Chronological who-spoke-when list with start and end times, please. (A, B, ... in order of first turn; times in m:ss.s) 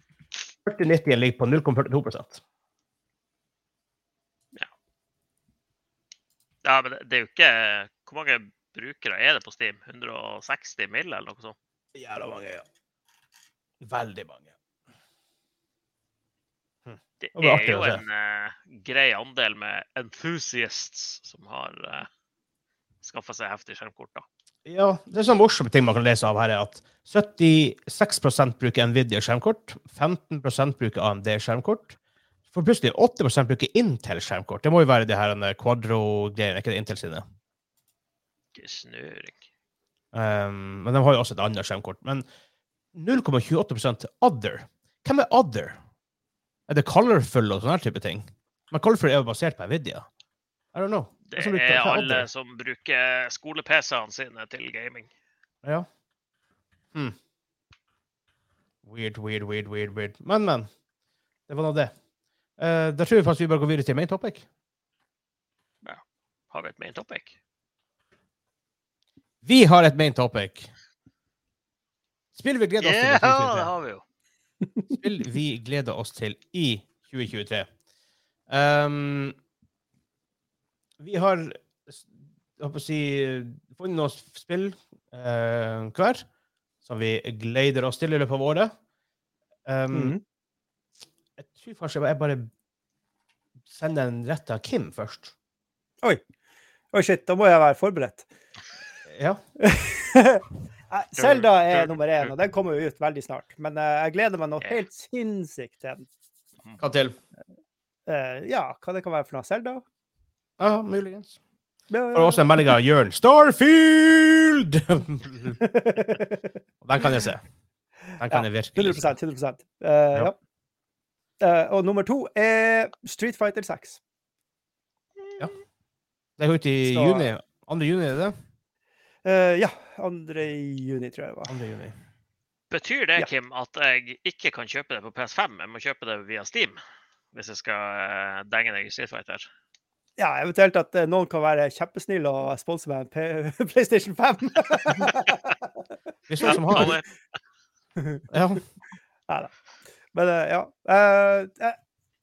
0:00.6-0:02.4 A
0:06.6-0:11.6 B
0:11.9-0:12.6 A
0:13.8-0:14.5 A
0:16.9-0:18.0 A
0:17.2-0:22.1 B
0:23.0-0:24.2 B
0:24.6-0:32.0 A
0:32.5-0:37.2 A
0:38.6-0:39.4 B
0:40.1-0:42.3 A
0:42.9-0:45.8 A
0:46.7-0:50.1 A
0:50.7-0:52.3 A
0:51.3-0:55.1 B
0:58.8-1:00.7 A
1:01.5-1:01.9 A
1:02.6-1:04.4 A
1:05.8-1:07.4 B
1:09.4-1:10.7 A
1:12.4-1:13.7 A
1:12.8-1:14.0 B
1:14.9-1:17.7 A
1:18.5-1:19.4 A
1:21.0-1:22.1 A
1:22.6-1:26.2 A
1:26.8-1:28.7 A
1:29.6-1:30.2 A
1:29.9-1:30.2 C
1:31.4-1:32.5 A
1:33.7-1:35.3 A
1:36.9-1:38.2 C
1:39.1-1:39.4 A
1:39.6-1:46.1 C
1:41.2-1:42.3 B
1:46.8-1:47.2 A
1:48.1-1:49.8 C
1:50.6-1:51.4 A
1:51.9-1:52.7 C
1:52.1-1:55.6 A
1:55.6-1:56.5 C
1:56.8-1:57.4 A
1:58.2-1:59.1 A
1:58.3-2:00.4 C
2:01.4-2:04.0 C
2:06.4-2:08.4 A
2:06.8-2:07.3 C
2:09.2-2:11.5 C
2:11.5-2:11.9 A
2:12.7-2:16.8 B
2:17.3-2:19.5 B
2:20.2-2:25.9 C
2:26.3-2:27.0 A
2:26.4-2:27.0 C
2:26.4-2:27.0 B
2:28.0-2:28.2 C
2:28.3-2:28.6 A
2:30.1-2:31.8 C